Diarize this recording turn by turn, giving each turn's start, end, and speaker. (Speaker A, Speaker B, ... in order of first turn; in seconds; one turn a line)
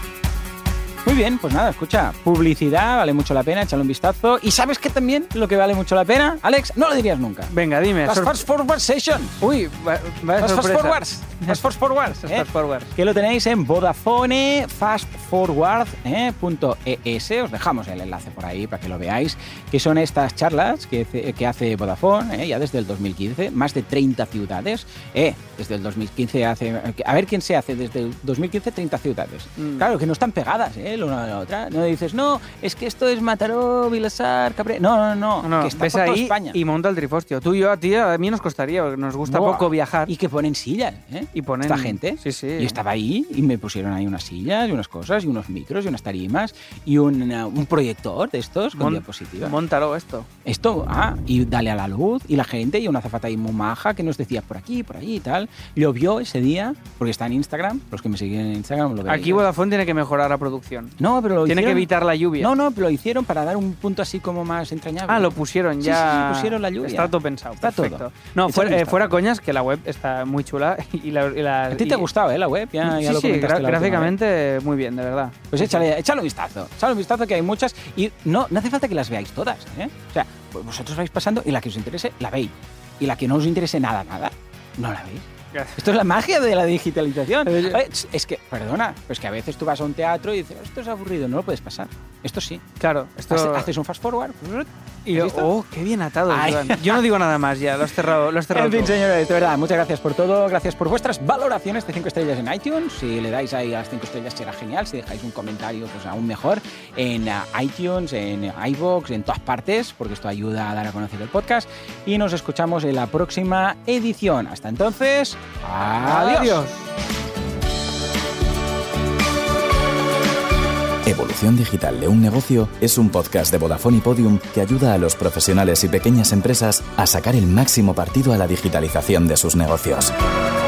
Speaker A: 1.0-7.5
Speaker B: 7.5-8.4
Speaker A: 8.0-9.4
Speaker B: 9.4-11.6
Speaker A: 10.4-36.6
Speaker B: 12.2-12.9
Speaker B: 29.6-29.9
Speaker B: 35.4-40.1
Speaker A: 39.2-49.6
Speaker B: 41.3-42.8
Speaker B: 48.7-50.3
Speaker A: 50.4-59.5
Speaker B: 59.1-62.5
Speaker A: 61.0-69.1
Speaker B: 65.1-72.1
Speaker A: 71.7-74.1
Speaker B: 72.8-75.8
Speaker A: 75.5-92.6
Speaker B: 85.5-85.8
Speaker B: 87.4-87.8
Speaker B: 92.8-93.7
Speaker A: 93.3-95.5
Speaker B: 95.0-99.0
Speaker A: 96.3-97.0
Speaker A: 98.5-116.6
Speaker B: 116.0-116.9
Speaker C: 121.0-130.1